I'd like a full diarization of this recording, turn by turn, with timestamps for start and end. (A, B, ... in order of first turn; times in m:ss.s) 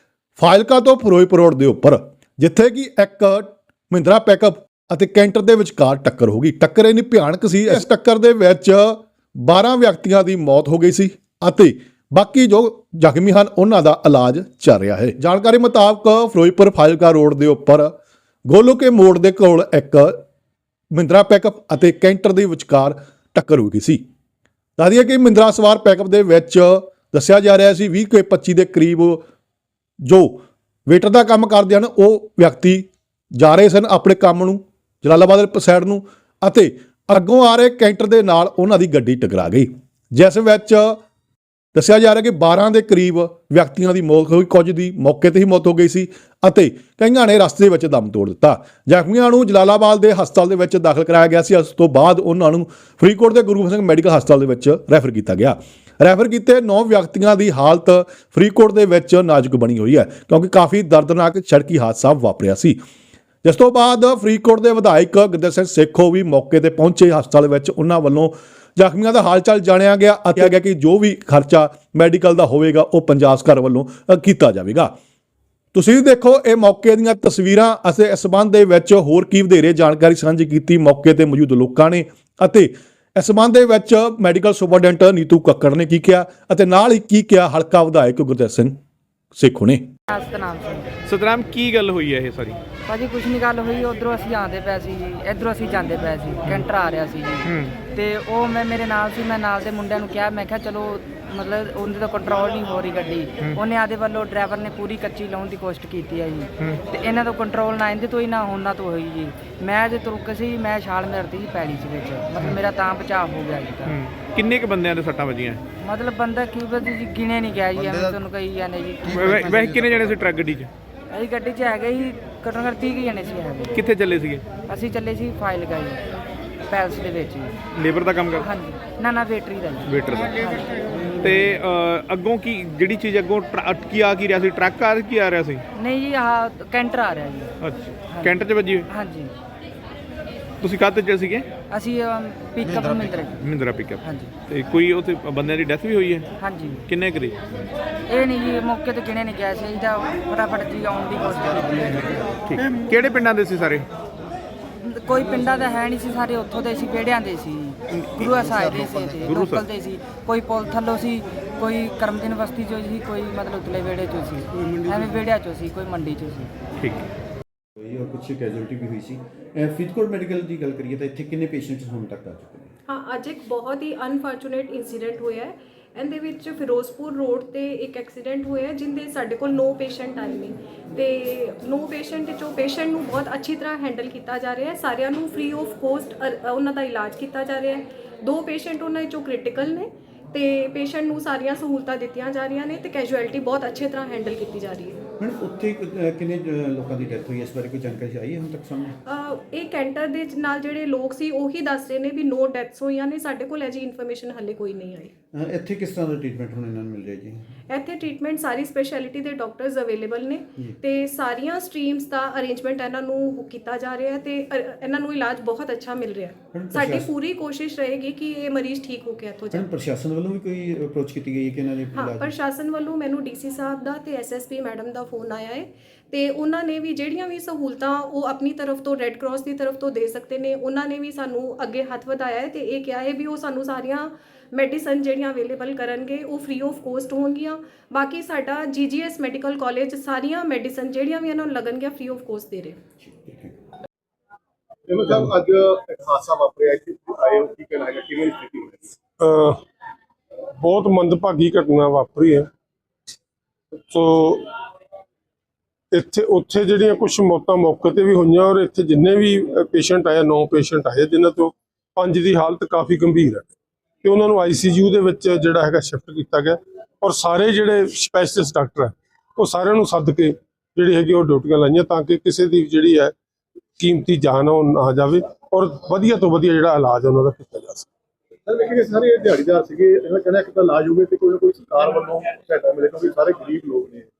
0:00.4-0:17.9 A
0:18.4-0:20.2 A
0:20.9-0:24.0 A
0:24.8-0:29.2 A
0:30.0-0:41.0 A
0:41.7-1:02.8 A
1:03.4-1:14.9 A
1:15.7-1:28.8 A
1:29.3-1:29.9 A
1:30.1-1:30.9 B
1:31.0-1:32.6 C
1:32.9-1:54.0 B
1:37.4-1:37.8 C
1:53.8-1:55.6 C
1:55.8-1:59.9 B
1:59.1-2:00.7 C
2:01.1-2:03.8 B
2:03.7-2:04.5 C
2:04.6-2:06.0 B
2:06.7-2:07.6 B
2:07.7-2:08.5 C
2:08.4-2:11.1 B
2:09.8-2:10.4 C
2:11.2-2:15.6 C
2:15.7-2:17.5 B
2:17.6-2:18.9 C
2:18.1-2:18.4 B
2:18.9-2:19.3 B
2:20.6-2:21.5 C
2:21.7-2:23.4 B
2:23.4-2:26.3 C
2:24.0-2:24.3 B
2:26.4-2:26.8 B
2:26.9-2:27.4 C
2:28.1-2:32.3 B
2:32.4-2:33.9 C
2:34.8-2:46.5 B
2:39.2-2:39.6 C
2:46.8-2:47.1 C
2:47.8-2:52.7 D
2:52.9-3:15.0 E
3:15.2-3:19.0 D
3:19.0-3:25.1 E
3:25.3-3:27.5 D
3:27.7-3:39.6 E
3:36.5-3:37.1 D
3:39.5-3:42.3 D
3:41.9-4:02.8 E
4:03.0-4:03.5 D
4:04.9-4:08.9 F
4:09.2-4:09.6 G
4:10.6-4:12.5 G
4:13.8-4:14.5 G
4:15.9-4:23.5 G
4:24.0-4:33.1 G
4:33.8-4:37.9 G
4:38.5-4:44.0 F